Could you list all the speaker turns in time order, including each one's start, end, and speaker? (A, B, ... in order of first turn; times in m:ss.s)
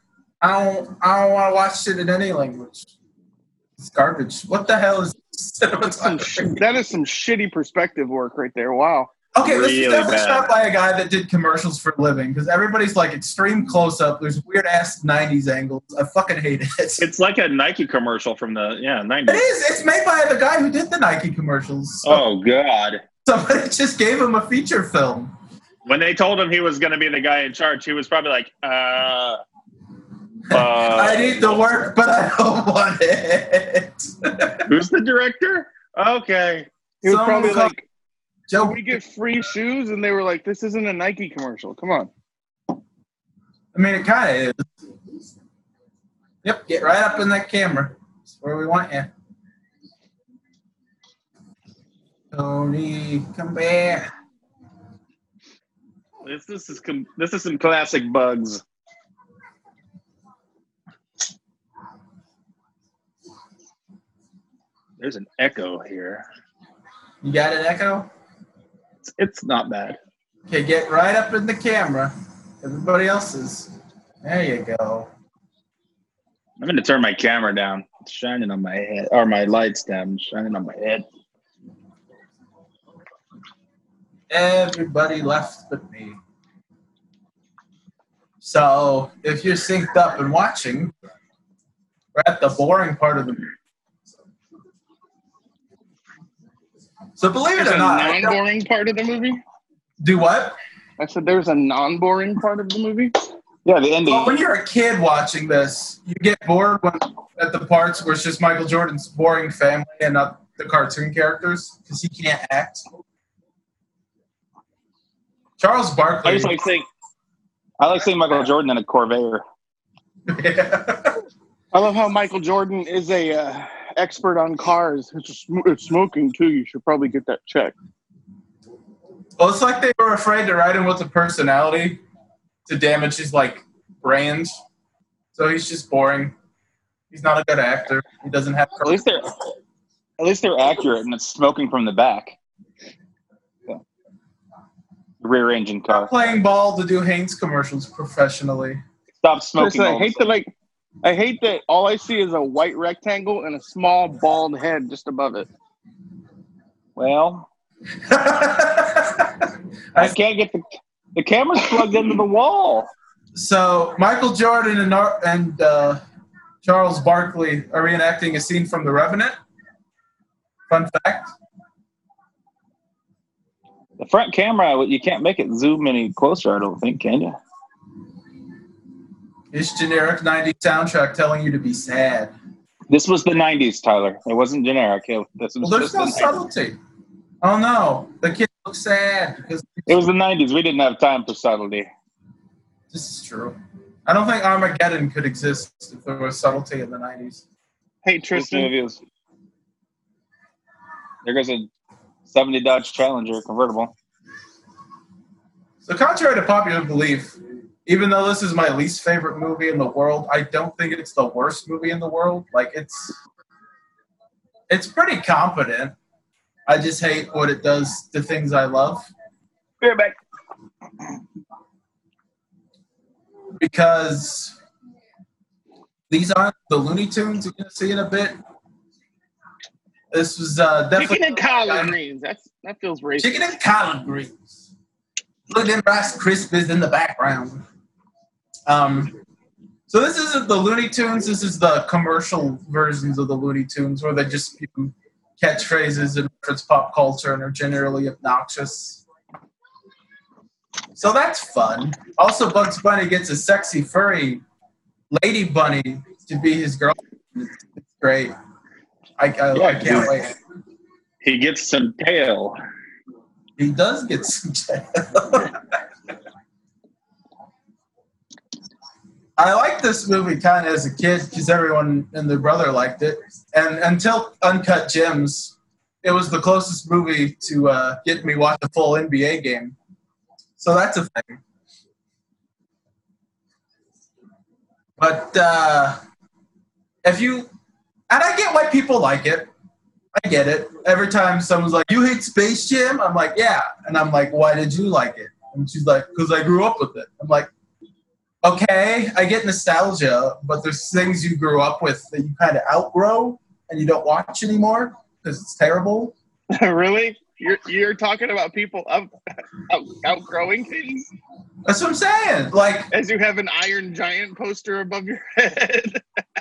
0:00.4-0:02.9 A
0:03.8-0:06.6 A
0:06.0-0:09.1 B
0:09.4-0:17.1 A
0:09.4-0:10.5 C
0:17.0-0:19.4 C
0:19.3-0:22.2 A
0:22.0-0:23.0 C
0:23.2-0:25.3 A
0:25.9-0:29.4 C
0:30.5-0:31.6 C
0:30.5-0:34.7 A
0:34.7-0:36.7 C
0:37.0-0:37.8 B
0:37.1-0:37.8 A
0:38.5-0:39.0 A
0:38.6-0:42.1 B
0:43.7-0:44.7 A
0:46.4-0:49.1 A
0:52.3-0:54.1 A
0:56.2-0:58.6 C
1:05.0-1:06.3 C
1:07.2-1:08.1 A
1:09.1-1:10.0 C
1:10.5-1:13.7 A
1:14.2-1:15.1 A
1:16.6-1:21.1 C
1:24.3-1:26.2 A
1:28.4-1:30.9 A
1:32.2-1:33.4 A
1:37.2-1:38.4 A
1:37.6-1:39.4 B
1:40.0-1:40.6 A
1:41.0-1:43.2 B
1:43.6-1:44.4 C
1:44.1-1:52.8 A
1:55.6-1:56.6 A
1:56.2-1:56.9 C
1:57.8-1:59.4 C
2:00.3-2:01.2 A
2:01.7-2:07.7 B
2:09.4-2:12.0 A
2:12.7-2:14.6 A
2:15.4-2:16.4 A
2:17.1-2:19.0 A
2:18.8-2:19.3 C
2:20.2-2:22.4 C
2:25.2-2:26.1 C
2:25.9-2:28.8 A
2:29.2-2:30.4 C
2:29.6-2:30.5 B
2:31.0-2:35.5 B
2:37.0-2:37.5 C
2:38.1-2:40.1 A
2:40.0-2:40.6 C
2:41.2-2:42.9 C
2:43.4-2:46.0 A
2:46.6-2:49.4 A
2:50.7-2:51.3 A
2:54.0-2:57.4 C
2:59.5-3:02.3 A
3:02.9-3:06.3 C
3:05.6-3:06.8 A
3:07.4-3:10.0 A
3:09.9-3:11.9 C
3:12.9-3:17.4 A
3:18.0-3:18.7 B
3:18.3-3:19.0 C
3:21.2-3:21.7 C
3:22.3-3:23.9 C
3:25.8-3:33.2 A
3:34.7-3:36.0 A
3:36.7-3:39.1 A
3:39.8-3:40.2 C
3:43.6-3:44.6 A
3:46.1-3:48.4 A
3:50.1-3:51.9 A
3:51.0-3:53.5 B
3:53.2-3:54.5 A
3:55.5-3:57.6 A
3:58.7-3:59.1 A
3:59.9-4:09.0 A
4:11.0-4:14.4 A
4:15.1-4:18.4 A
4:19.2-4:20.3 A
4:19.5-4:20.2 C
4:21.2-4:22.6 C
4:23.6-4:25.6 A
4:29.4-4:39.8 A
4:40.6-4:41.4 A
4:45.0-4:46.0 A
4:47.0-4:47.5 A
4:48.1-4:49.5 A
4:50.2-4:57.5 A
4:58.4-5:06.1 A
5:06.5-5:09.1 B
5:09.7-5:11.1 B
5:11.6-5:12.9 A
5:12.9-5:16.0 B